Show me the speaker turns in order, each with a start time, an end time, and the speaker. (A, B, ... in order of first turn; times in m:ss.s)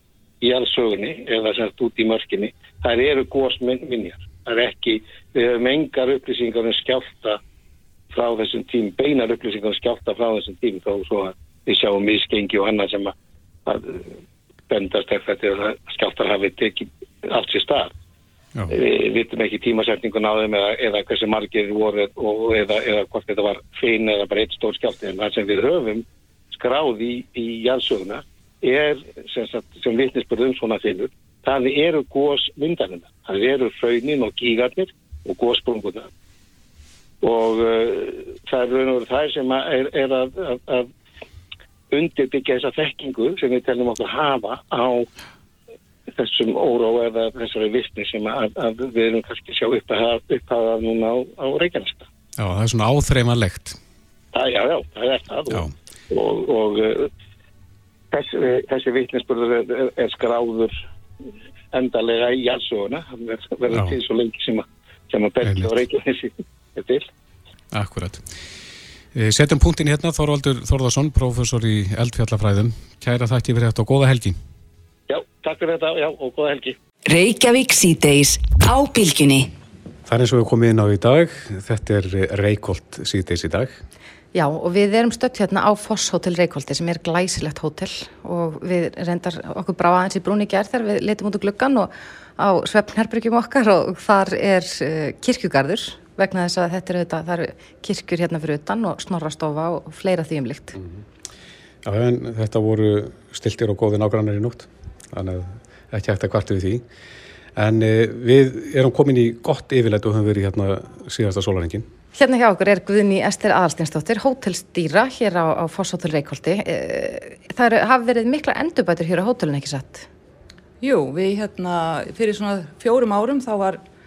0:00.4-0:07.4 A
0:08.1-0:13.1 A
0:13.6-0:14.1 A
0:14.7-0:17.9 A
0:18.7-0:36.1 A
0:37.2-0:40.9 A
0:41.9-0:45.1 A
0:46.1-0:52.1 A
0:52.4-0:53.8 B
0:54.3-0:57.1 A
0:58.1-1:00.7 A
1:01.7-1:07.1 A
1:03.7-1:04.0 B
1:05.4-1:05.8 B
1:07.7-1:08.3 B
1:09.1-1:14.4 B
1:15.1-1:16.8 A
1:17.1-1:19.5 C
1:20.0-1:23.8 B
1:24.3-1:40.8 D
1:41.8-1:46.8 B
1:47.6-1:51.9 B
1:52.1-2:00.1 D
2:00.8-2:03.8 E